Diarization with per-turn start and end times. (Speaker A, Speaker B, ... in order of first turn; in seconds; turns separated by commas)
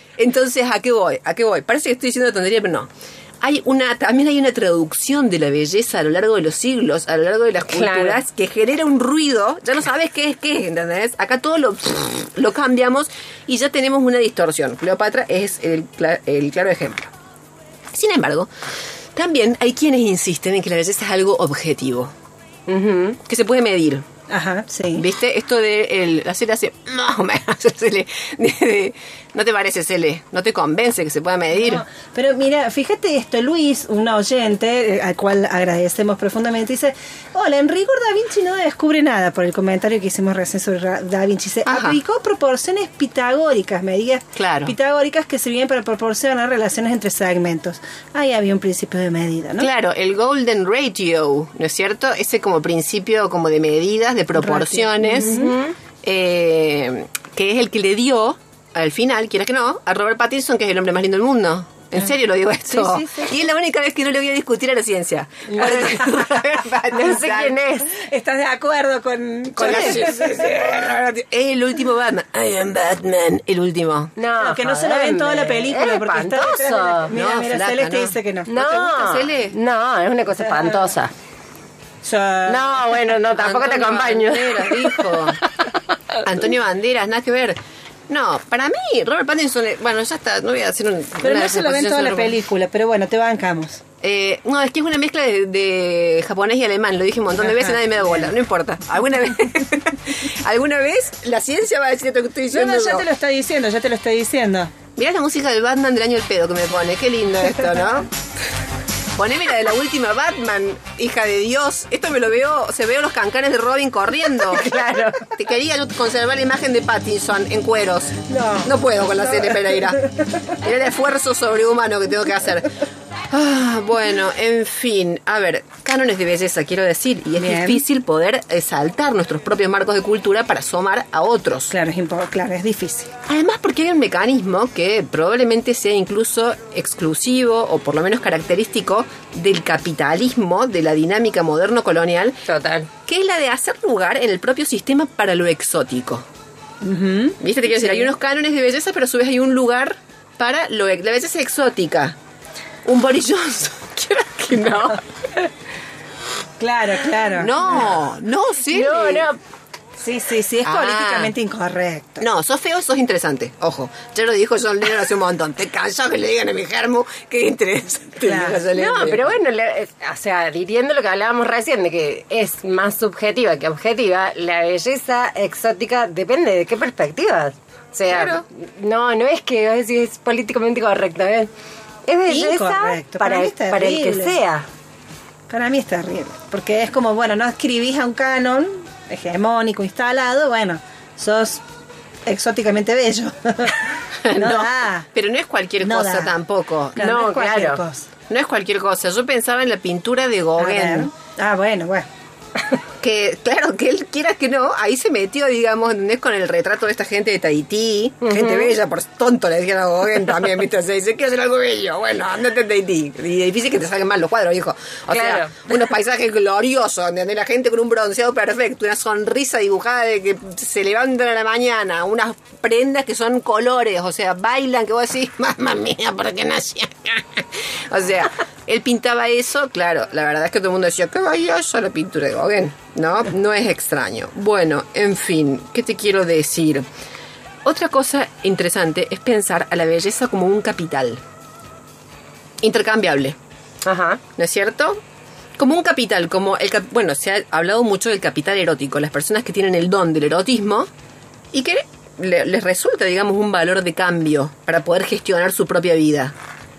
Speaker A: 0.2-2.9, Speaker A: 3.4-17.1, Speaker B: 7.7-8.2, Speaker A: 17.9-18.5, Speaker A: 19.1-22.1, Speaker B: 22.7-23.2, Speaker A: 23.2-24.1, Speaker C: 24.3-25.1, Speaker A: 24.9-31.9, Speaker C: 31.6-49.7, Speaker A: 41.6-42.0, Speaker A: 44.4-44.7, Speaker A: 49.6-55.4, Speaker C: 54.4-55.5, Speaker B: 55.1-55.8, Speaker A: 56.0-67.6, Speaker C: 62.7-63.3, Speaker B: 65.5-66.0, Speaker B: 66.9-67.9, Speaker C: 67.9-70.5, Speaker A: 69.5-74.1, Speaker B: 74.2-77.1, Speaker C: 74.4-78.5, Speaker A: 77.1-79.6, Speaker B: 78.5-81.1, Speaker C: 80.4-80.9, Speaker C: 82.0-82.8, Speaker B: 82.5-85.1, Speaker A: 83.3-85.4, Speaker A: 86.2-87.6, Speaker A: 88.1-92.3, Speaker C: 91.2-93.8, Speaker A: 94.0-103.1, Speaker C: 97.5-98.3, Speaker C: 102.5-104.7, Speaker A: 105.0-108.1, Speaker A: 109.2-120.0, Speaker B: 114.5-115.3, Speaker C: 118.3-120.2, Speaker A: 120.6-122.7, Speaker A: 123.3-131.7, Speaker C: 127.4-127.8, Speaker C: 131.7-133.1, Speaker A: 133.3-142.4, Speaker B: 142.5-142.9, Speaker A: 143.1-146.3, Speaker B: 147.0-147.3, Speaker A: 147.4-152.2, Speaker A: 152.8-155.0, Speaker C: 156.6-157.9, Speaker A: 157.4-159.3, Speaker B: 158.7-159.4, Speaker C: 160.0-162.2, Speaker A: 160.6-161.3, Speaker A: 162.2-169.4, Speaker C: 168.2-168.7, Speaker B: 168.7-181.5, Speaker A: 178.1-178.5, Speaker B: 182.1-184.7, Speaker C: 182.3-184.4, Speaker C: 185.5-191.6, Speaker C: 192.3-195.1, Speaker A: 194.2-197.1, Speaker C: 195.8-196.4, Speaker C: 197.0-198.1, Speaker B: 197.0-197.8, Speaker A: 198.3-201.1, Speaker C: 200.6-202.1, Speaker A: 203.0-236.9, Speaker B: 208.2-208.8, Speaker B: 215.1-215.6, Speaker A: 237.6-241.2, Speaker A: 242.6-243.4, Speaker B: 243.8-244.2, Speaker A: 244.4-245.0, Speaker A: 245.6-250.9, Speaker A: 251.5-256.4